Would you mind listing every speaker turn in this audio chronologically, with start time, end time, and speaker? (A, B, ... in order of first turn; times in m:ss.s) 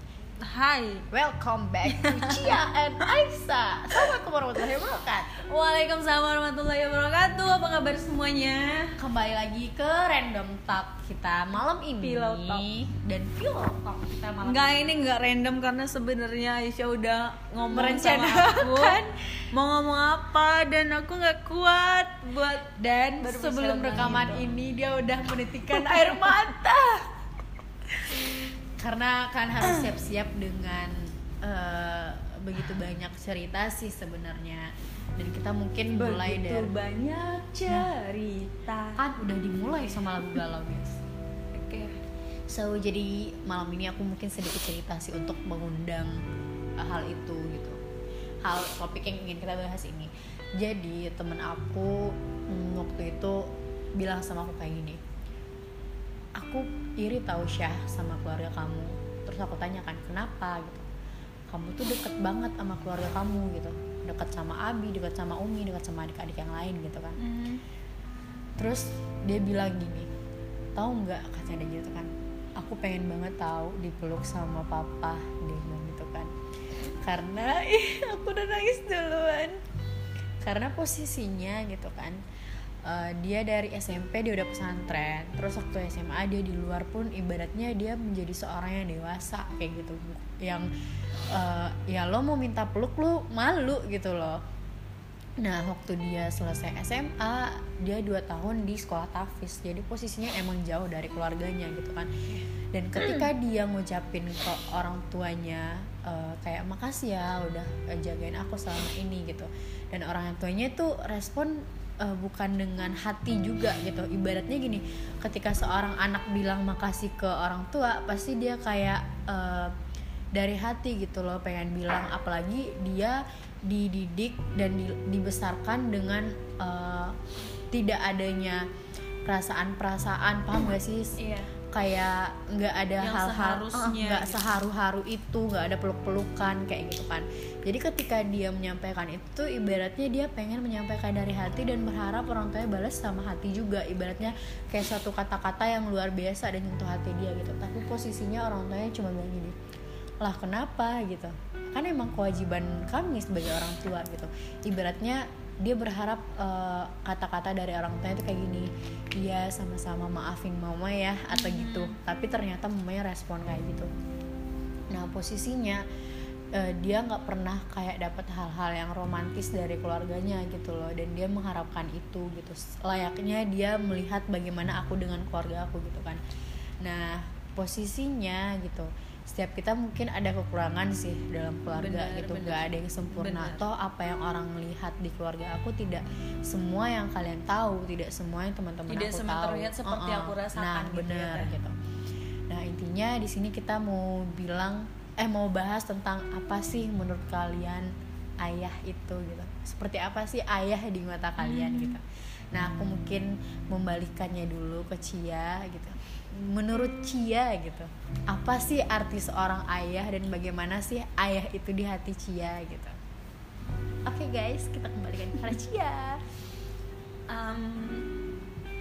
0:00.4-0:01.1 A
0:01.1-0:05.3 B
0:01.9-0:02.6 A
0:05.4-0:09.0 A
0:09.0-0:14.6 B
0:12.0-0:12.7 A
0:14.4-0:24.5 A
0:17.7-0:19.0 B
0:23.1-0:26.7 B
0:25.7-0:27.1 A
0:28.8-0:36.7 B
0:35.9-0:39.0 A
0:39.0-0:41.0 B
0:41.5-0:42.0 A
0:42.5-0:46.2 B
0:46.8-0:47.8 B
0:48.4-0:55.0 B
0:56.4-1:00.8 B
1:01.5-1:07.2 B
1:07.2-1:07.6 A
1:08.6-1:10.1 B
1:10.8-1:16.3 B
1:17.0-1:19.5 B
1:20.4-1:22.2 B
1:22.8-1:30.7 B
1:31.3-1:34.4 B
1:35.4-1:42.1 B
1:42.7-1:59.7 B
1:43.0-1:43.3 A
2:00.3-2:07.2 B
2:07.7-2:08.6 B
2:09.2-2:11.2 B
2:11.2-2:11.5 A
2:11.7-2:29.6 B
2:13.0-2:14.6 A
2:30.2-2:43.9 B
2:41.3-2:42.0 A
2:44.9-2:45.8 B
2:46.5-2:56.2 B
2:56.8-3:11.8 B
3:01.7-3:03.6 A
3:08.9-3:11.6 A
3:12.5-3:33.0 B
3:21.4-3:22.0 A
3:34.0-3:36.2 B
3:37.3-3:38.1 A